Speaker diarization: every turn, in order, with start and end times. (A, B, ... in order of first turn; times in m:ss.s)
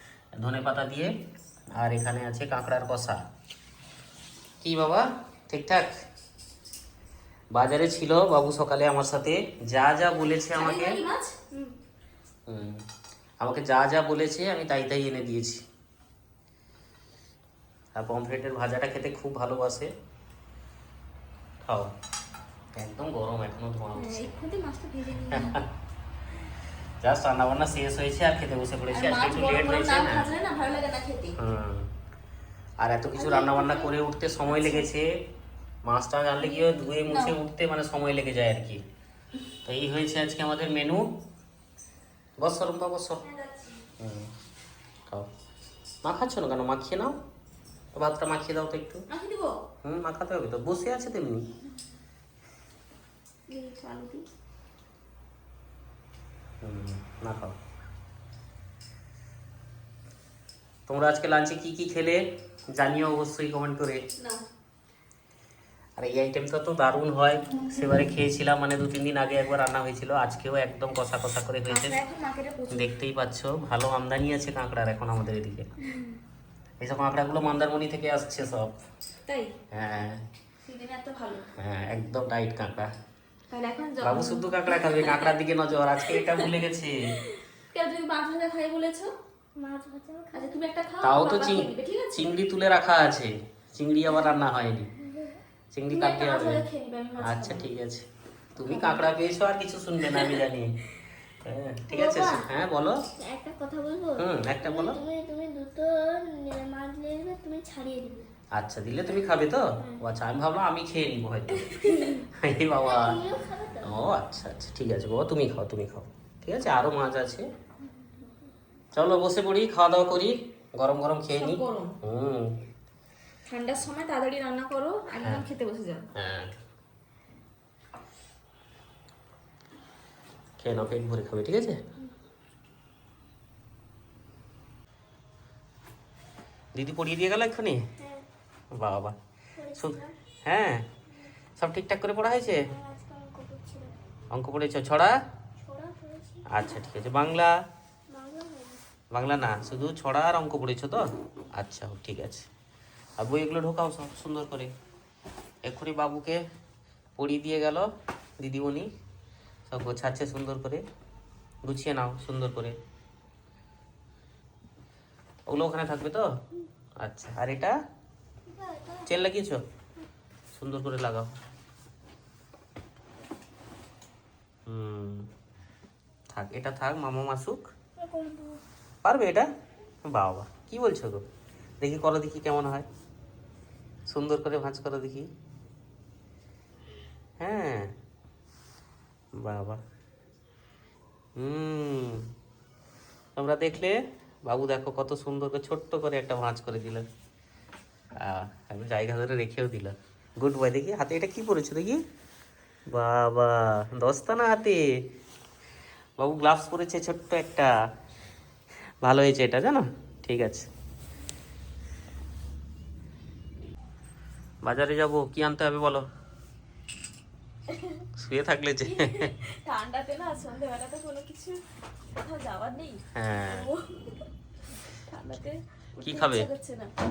0:00.4-0:01.1 A
0:01.8-0:03.2 A
0:04.6-0:05.9 A
0:07.5-0:11.0 A
0:10.5-0:11.7 B
0:12.5-0:12.8 A
0:13.4-0:15.6 A
0:17.9-0:19.9 A
0:21.6-0:21.9 A
0:22.7-0:24.3 A
0:23.9-0:25.6 B
0:25.3-0:25.6 A
0:27.0-0:30.3 A
0:28.9-0:31.4 B
0:31.4-0:31.9 A
0:32.8-0:35.2 A
0:33.2-0:33.9 B
0:33.2-0:33.7 C
0:35.8-0:38.8 A
0:36.4-0:37.4 B
0:39.6-0:41.1 A
0:42.4-0:43.2 A
0:43.2-0:43.8 B
0:44.0-0:44.3 A
0:46.0-0:47.2 A
0:47.9-0:49.0 A
0:49.1-0:49.6 B
0:49.8-0:51.5 A
0:53.5-0:54.3 B
0:56.6-0:57.6 A
1:00.9-1:02.2 A
1:02.7-1:04.0 A
1:04.2-1:04.4 B
1:06.0-1:12.0 A
1:11.7-1:12.9 B
1:12.7-1:15.7 A
1:16.8-1:18.8 A
1:19.2-1:19.6 B
1:19.7-1:20.2 A
1:20.6-1:21.5 B
1:21.6-1:22.9 A
1:23.5-1:25.3 B
1:24.0-1:27.2 A
1:26.0-1:26.6 B
1:27.1-1:29.1 B
1:29.6-1:30.6 C
1:30.3-1:32.3 B
1:31.0-1:34.9 A
1:35.0-1:35.4 C
1:35.7-1:36.6 A
1:35.9-1:37.7 B
1:37.2-1:38.0 A
1:38.6-1:40.8 A
1:38.7-1:39.0 B
1:40.1-1:40.4 B
1:41.4-1:43.0 A
1:41.9-1:42.5 C
1:43.2-1:48.3 C
1:44.2-1:45.0 A
1:48.5-1:53.2 A
1:51.6-1:52.2 B
1:52.8-1:53.9 C
1:53.8-1:57.4 A
1:58.9-2:02.6 A
2:01.3-2:02.0 B
2:03.4-2:06.1 B
2:05.2-2:05.4 A
2:06.1-2:06.5 A
2:10.6-2:11.8 A
2:16.7-2:17.8 A
2:18.0-2:18.2 C
2:18.8-2:19.1 A
2:19.6-2:20.1 C
2:19.7-2:20.8 A
2:21.6-2:22.7 A
2:22.7-2:23.9 C
2:24.3-2:25.1 A
2:25.6-2:26.5 C
2:26.5-2:27.5 A
2:28.1-2:28.8 C
2:29.1-2:32.5 A
2:33.2-2:34.7 A
2:35.6-2:36.4 A
2:37.2-2:37.9 A
2:38.4-2:38.9 A
2:39.7-2:40.8 A
2:41.6-2:42.8 A
2:45.5-2:46.3 A
2:47.0-2:47.8 A
2:48.5-2:49.1 C
2:49.0-2:49.6 A
2:50.5-2:51.3 A
2:54.7-2:55.3 A
2:56.3-2:57.7 A
2:58.0-2:58.6 C
2:59.0-2:59.5 A
3:00.0-3:01.2 A
3:01.8-3:02.8 A
3:04.1-3:05.3 A
3:07.4-3:07.9 A
3:09.4-3:09.8 A
3:11.4-3:12.3 A
3:13.4-3:17.0 A
3:18.2-3:22.0 A
3:22.9-3:24.8 A
3:26.2-3:27.7 A
3:29.0-3:30.7 A
3:34.6-3:36.0 A
3:37.7-3:38.1 B
3:38.2-3:39.3 A
3:38.8-3:41.6 B
3:42.1-3:44.0 B
3:43.1-3:43.7 A
3:45.1-3:46.9 B
3:46.0-3:46.5 A